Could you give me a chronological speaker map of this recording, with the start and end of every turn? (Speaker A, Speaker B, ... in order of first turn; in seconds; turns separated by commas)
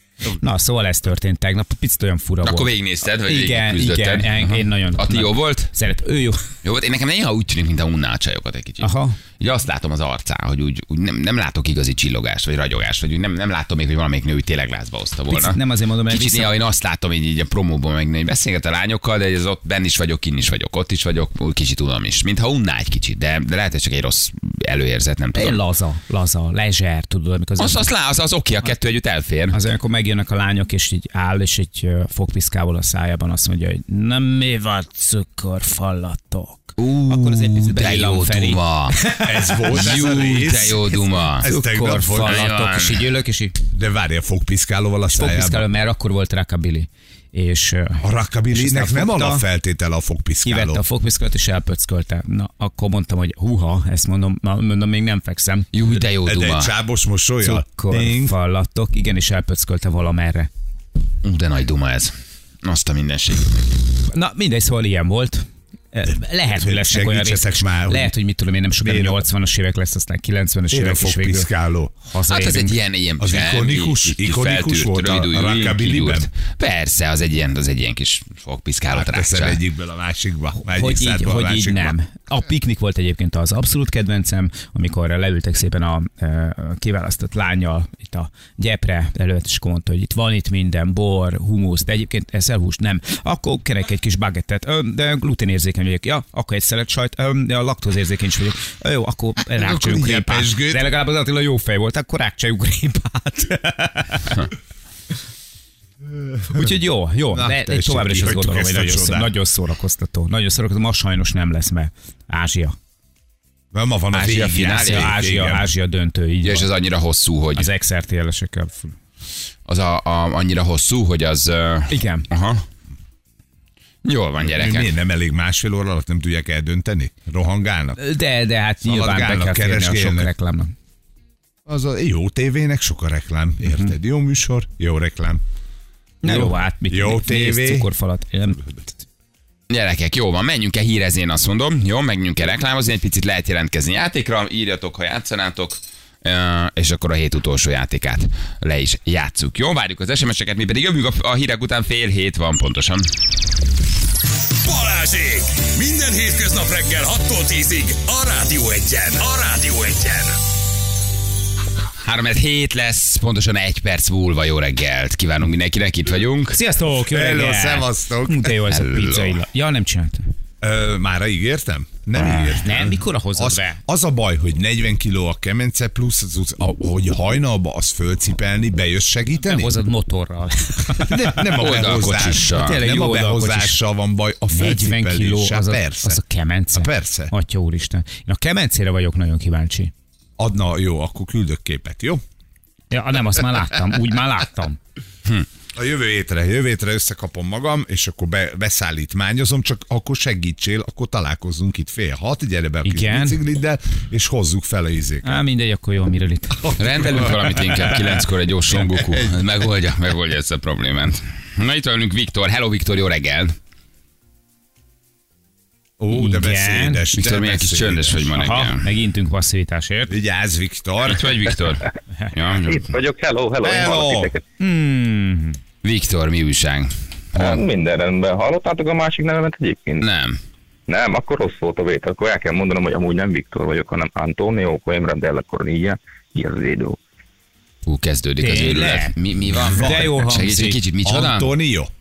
Speaker A: 0.3-6.5, Speaker B: 2.4-5.7, Speaker B: 6.6-25.6, Speaker A: 8.8-9.2, Speaker A: 15.3-16.5, Speaker A: 25.3-27.9, Speaker B: 27.6-29.6, Speaker A: 29.5-40.0, Speaker B: 36.8-39.0, Speaker C: 39.2-42.5, Speaker B: 39.7-41.5, Speaker A: 41.4-43.6, Speaker B: 42.2-43.0, Speaker C: 43.7-45.6, Speaker A: 45.1-49.4, Speaker C: 48.0-50.8, Speaker A: 50.4-55.7, Speaker B: 55.7-56.7, Speaker C: 56.2-58.3, Speaker A: 57.4-60.5, Speaker B: 61.2-63.7, Speaker A: 64.1-71.5, Speaker C: 66.5-68.1, Speaker C: 68.8-69.2, Speaker C: 70.7-71.9, Speaker A: 72.0-72.7, Speaker B: 72.3-79.6, Speaker C: 73.2-76.3, Speaker C: 78.9-81.9, Speaker A: 80.6-104.5, Speaker C: 99.5-100.9, Speaker C: 106.3-106.7, Speaker A: 106.5-112.8, Speaker C: 107.3-109.3, Speaker C: 113.7-115.7, Speaker B: 114.1-115.1, Speaker A: 114.8-116.7, Speaker B: 116.4-117.7, Speaker A: 117.5-119.0, Speaker B: 119.7-122.6, Speaker A: 121.9-122.2, Speaker B: 124.0-124.9, Speaker C: 124.4-128.0, Speaker A: 128.0-130.7, Speaker C: 128.8-130.3, Speaker C: 131.7-135.4, Speaker A: 133.7-133.9, Speaker A: 136.2-139.0, Speaker C: 136.2-137.9, Speaker B: 139.7-153.1, Speaker D: 154.6-160.4, Speaker B: 162.0-166.6, Speaker A: 166.5-170.3, Speaker C: 167.0-168.5, Speaker B: 168.7-169.3, Speaker C: 170.6-179.8, Speaker B: 172.2-172.6, Speaker A: 172.6-173.8, Speaker A: 179.4-183.8, Speaker C: 180.9-186.2, Speaker B: 181.5-182.8, Speaker A: 184.5-189.9, Speaker C: 186.7-187.3, Speaker C: 190.4-192.2, Speaker A: 192.9-194.8, Speaker C: 195.7-205.3, Speaker A: 202.8-203.4, Speaker A: 205.2-206.9, Speaker B: 206.8-213.6, Speaker C: 209.0-209.3, Speaker C: 216.0-218.7, Speaker A: 216.1-217.0, Speaker B: 217.1-218.8, Speaker A: 218.4-220.2, Speaker C: 220.1-221.4, Speaker B: 221.0-222.9, Speaker E: 222.6-224.4, Speaker C: 223.6-224.3, Speaker A: 224.6-225.6, Speaker B: 225.8-227.6, Speaker E: 227.3-230.1, Speaker B: 230.0-230.4, Speaker E: 230.9-237.0, Speaker B: 237.8-241.5, Speaker A: 238.4-239.1, Speaker C: 239.6-240.1, Speaker A: 239.7-240.8, Speaker C: 241.0-241.9